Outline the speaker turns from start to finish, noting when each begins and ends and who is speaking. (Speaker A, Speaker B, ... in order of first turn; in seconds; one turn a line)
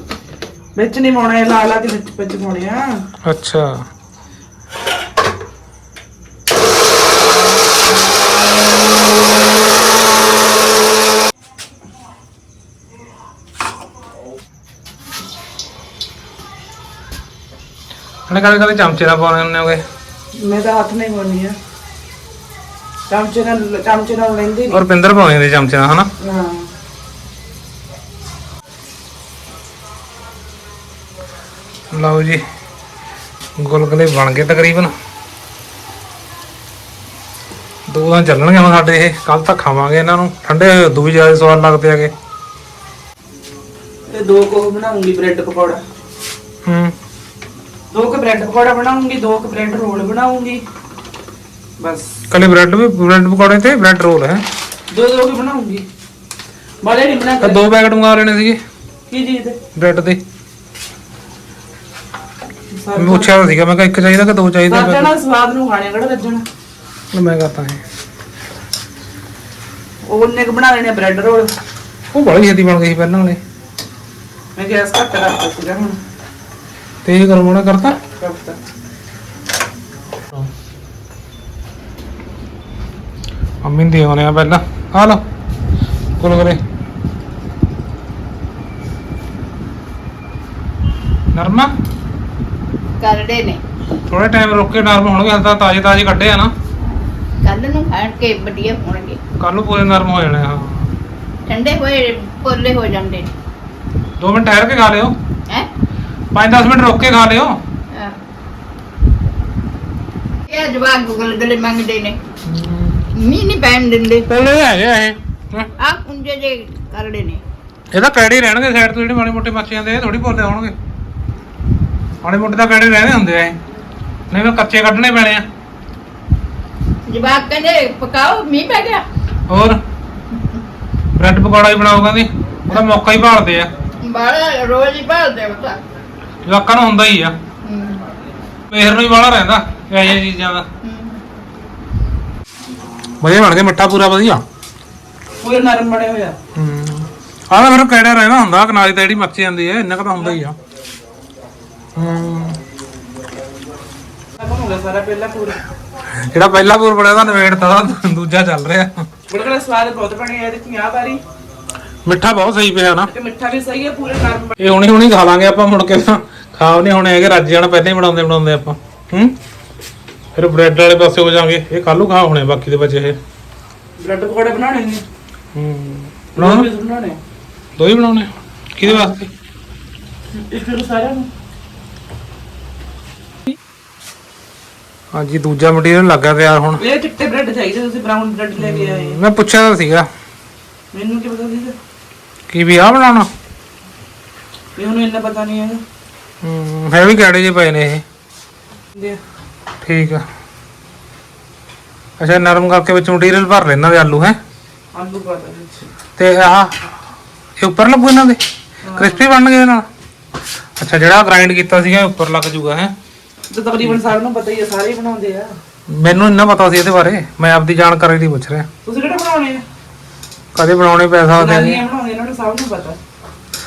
Speaker A: 0.8-3.0
Speaker B: 3.2-3.8
Speaker B: 18.3-19.8
Speaker A: 20.4-21.6
Speaker A: 23.1-24.8
Speaker B: 24.7-26.1
Speaker A: 26.2-26.7
Speaker B: 31.9-32.4
Speaker B: 33.6-34.9
Speaker B: 37.9-42.1
Speaker A: 44.1-45.8
Speaker B: 46.6-47.0
Speaker A: 47.9-50.6
Speaker A: 51.8-52.1
Speaker B: 52.3-54.4
Speaker A: 54.9-55.9
Speaker A: 56.8-57.7
Speaker B: 57.4-58.6
Speaker A: 59.1-59.6
Speaker B: 59.8-60.2
Speaker A: 62.7-63.3
Speaker B: 63.0-65.1
Speaker A: 64.7-66.5
Speaker B: 67.1-67.8
Speaker A: 70.1-71.5
Speaker B: 72.1-73.4
Speaker A: 74.6-76.0
Speaker B: 77.0-78.0
Speaker A: 78.2-78.6
Speaker B: 83.6-85.2
Speaker B: 86.2-86.6
Speaker B: 91.3-91.7
Speaker C: 93.0-93.6
Speaker B: 94.1-96.5
Speaker C: 97.4-99.2
Speaker B: 99.4-100.9
Speaker C: 101.5-103.3
Speaker B: 104.2-105.2
Speaker B: 106.3-107.6
Speaker C: 110.5-112.2
Speaker B: 112.5-113.0
Speaker C: 113.1-114.3
Speaker B: 114.3-115.7
Speaker C: 115.8-117.4
Speaker B: 117.9-120.8
Speaker B: 122.2-123.6
Speaker B: 124.3-125.5
Speaker C: 127.1-129.1
Speaker B: 129.5-129.8
Speaker B: 131.1-133.7
Speaker C: 134.0-135.8
Speaker B: 136.4-137.4
Speaker C: 137.6-138.1
Speaker B: 138.7-140.7
Speaker C: 140.8-141.2
Speaker B: 143.2-144.4
Speaker A: 145.4-146.4
Speaker B: 146.6-150.6
Speaker B: 151.9-152.6
Speaker A: 154.4-155.6
Speaker B: 156.2-159.1
Speaker A: 159.3-161.2
Speaker B: 162.1-163.1
Speaker A: 163.1-164.6
Speaker B: 164.6-169.4
Speaker B: 170.4-173.2
Speaker A: 174.0-175.0
Speaker B: 175.6-176.7
Speaker A: 176.4-177.2
Speaker B: 177.8-179.3
Speaker A: 178.8-179.1
Speaker A: 180.3-181.3
Speaker B: 185.1-186.8
Speaker A: 186.8-189.2
Speaker B: 188.6-190.1
Speaker A: 190.9-191.8
Speaker B: 192.5-193.3
Speaker A: 194.8-195.8
Speaker B: 196.4-198.0
Speaker B: 199.8-200.2
Speaker B: 202.2-204.4
Speaker A: 204.9-205.8
Speaker B: 206.2-206.8
Speaker B: 207.6-208.4
Speaker A: 208.8-209.3
Speaker B: 208.9-209.9
Speaker B: 210.8-212.9
Speaker A: 213.5-215.5
Speaker B: 215.9-218.7
Speaker A: 218.8-219.6
Speaker B: 220.6-221.8
Speaker A: 221.4-223.0